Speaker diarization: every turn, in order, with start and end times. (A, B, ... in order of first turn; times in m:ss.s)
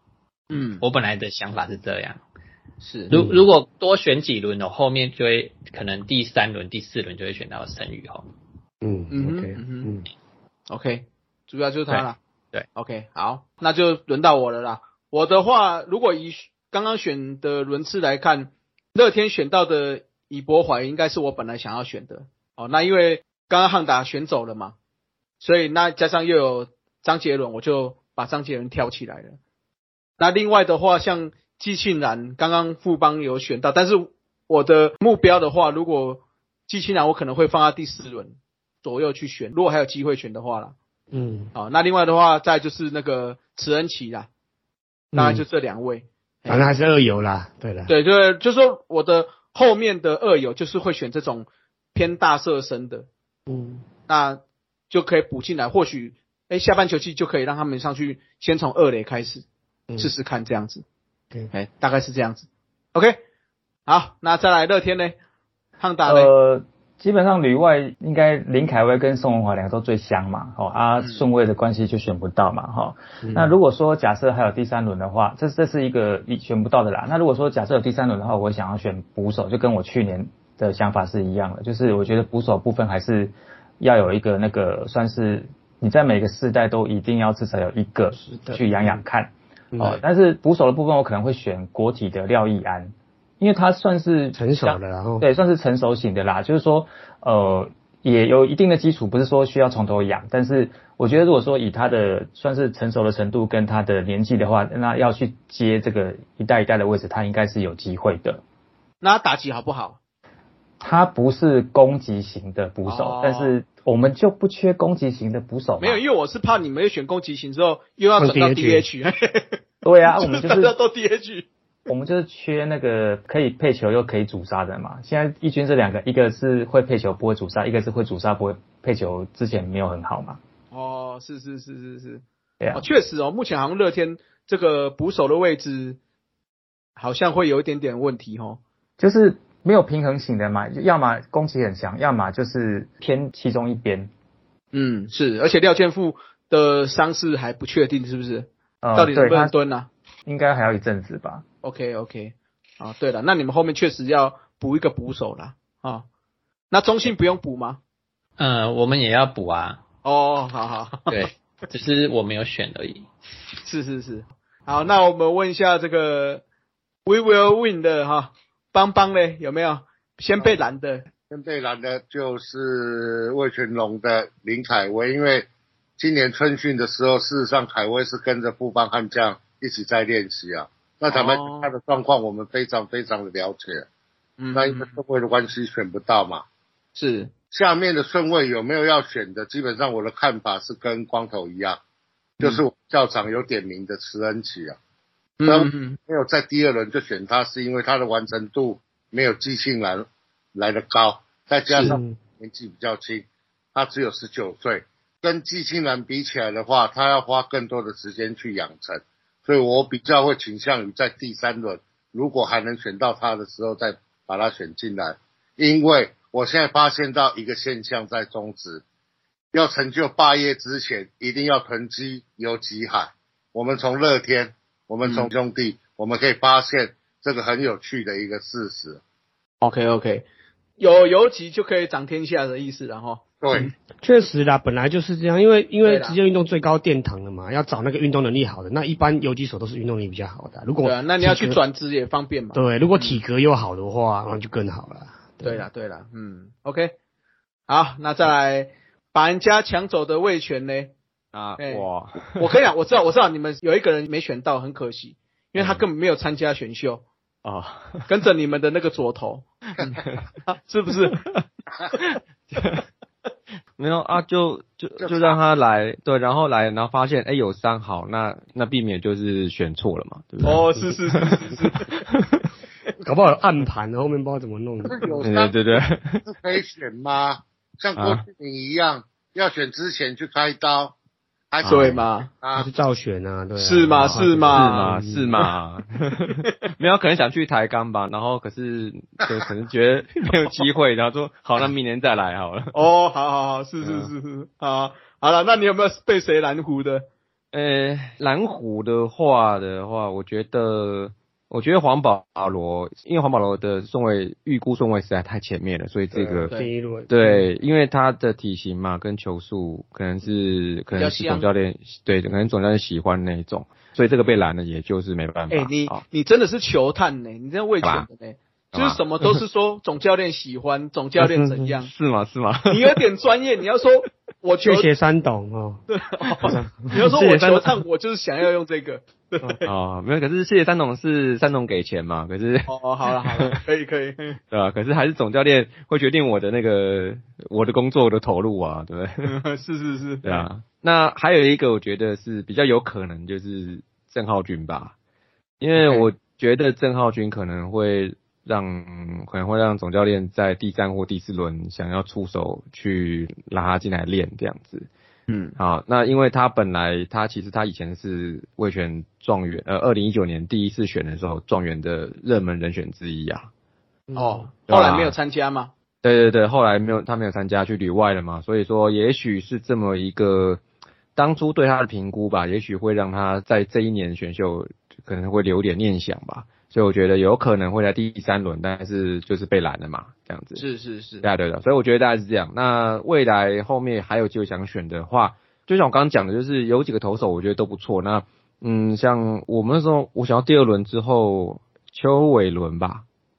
0:00.5-0:00.8 A
0:00.6-0:02.2 B
0:02.8-0:03.1 A
0:03.1-0:08.2 B
0:03.1-0:03.4 C
0:08.8-0:10.0 C
0:09.1-0:09.9 A
0:10.7-0:12.2 A
0:12.7-0:24.7 A
0:25.4-0:29.4 A
0:30.2-0:40.7 A
0:41.1-0:41.5 C
0:41.5-0:44.3 A
0:45.1-0:45.4 C
0:45.2-0:46.7 A
0:46.5-0:47.9 C
0:47.9-0:53.1 A
0:53.5-0:53.8 C
0:54.1-0:59.4 A
1:00.0-1:00.8 A
1:01.5-1:03.2 A
1:03.9-1:05.2 A
1:05.8-1:06.3 A
1:06.0-1:48.4 D
1:11.0-1:11.2 A
1:13.2-1:13.5 C
1:28.2-1:29.0 C
1:29.7-1:30.0 C
1:34.4-1:35.2 C
1:49.0-1:50.0 A
1:50.8-1:56.0 D
1:52.8-1:53.5 A
1:55.8-2:01.5 A
1:58.2-1:58.9 C
1:59.8-2:00.8 D
2:01.9-2:10.4 D
2:10.7-2:16.0 A
2:12.6-2:12.9 D
2:17.0-2:18.6 A
2:19.0-2:24.1 D
2:24.7-2:29.9 A
2:28.8-2:29.5 D
2:30.2-2:31.4 D
2:31.6-2:36.0 A
2:36.7-2:37.8 A
2:38.4-2:39.8 B
2:40.0-2:41.1 A
2:41.1-2:43.1 B
2:43.6-2:46.4 A
2:47.0-2:51.1 A
2:51.3-3:03.9 E
3:01.1-3:01.7 A
3:04.4-3:05.0 A
3:04.5-3:06.4 E
3:06.9-3:07.3 A
3:07.5-3:11.8 E
3:12.4-3:14.8 E
3:15.4-3:16.0 A
3:15.5-3:38.8 E
3:21.7-3:22.0 A
3:21.8-3:22.2 C
3:39.5-3:49.0 E
3:45.0-3:45.3 A
3:49.6-3:50.2 A
3:50.8-3:53.7 A
3:53.4-3:53.7 E
3:54.0-4:01.6 C
3:55.8-3:56.2 A
4:00.8-4:03.2 A
4:02.5-4:05.6 C
4:05.4-4:06.9 A
4:07.7-4:10.9 A
4:11.3-4:12.5 F
4:11.6-4:17.0 A
4:15.6-4:15.8 F
4:17.4-4:18.0 F
4:18.0-4:21.2 A
4:20.0-4:20.3 F
4:21.1-4:21.4 F
4:22.1-4:22.8 F
4:23.8-4:32.5 F
4:25.0-4:25.4 E
4:30.4-4:31.9 A
4:33.0-4:35.1 C
4:34.8-4:40.9 E
4:35.2-4:36.2 F
4:38.0-4:38.2 F
4:41.5-4:42.7 E
4:41.6-4:42.0 F
4:41.6-4:42.3 A
4:42.5-4:45.3 C
4:43.6-4:44.9 A
4:44.0-4:52.8 F
4:52.7-4:57.1 A
4:53.8-4:54.1 F
4:57.5-5:06.5 F
5:06.1-5:07.4 C
5:07.1-5:16.0 F
5:10.9-5:11.4 A
5:15.5-5:21.9 A
5:17.8-5:18.1 F
5:18.7-5:19.4 F
5:21.2-5:21.6 C
5:21.8-5:22.9 F
5:22.7-5:24.9 A
5:24.6-5:25.8 C
5:25.9-5:29.7 A
5:26.5-5:26.9 C
5:26.9-5:27.8 F
5:29.6-5:32.7 F
5:32.7-5:34.4 A
5:33.2-5:33.6 F
5:34.5-5:39.3 F
5:39.2-5:40.4 A
5:40.2-5:44.9 F
5:45.6-5:54.9 F
5:45.8-5:46.1 A
5:55.3-5:55.6 A
5:55.6-6:03.5 F
6:04.1-6:04.5 C
6:04.2-6:05.7 A
6:04.7-6:05.2 F
6:06.0-6:10.6 F
6:11.1-6:20.6 F
6:20.6-6:21.2 A
6:21.2-6:33.0 F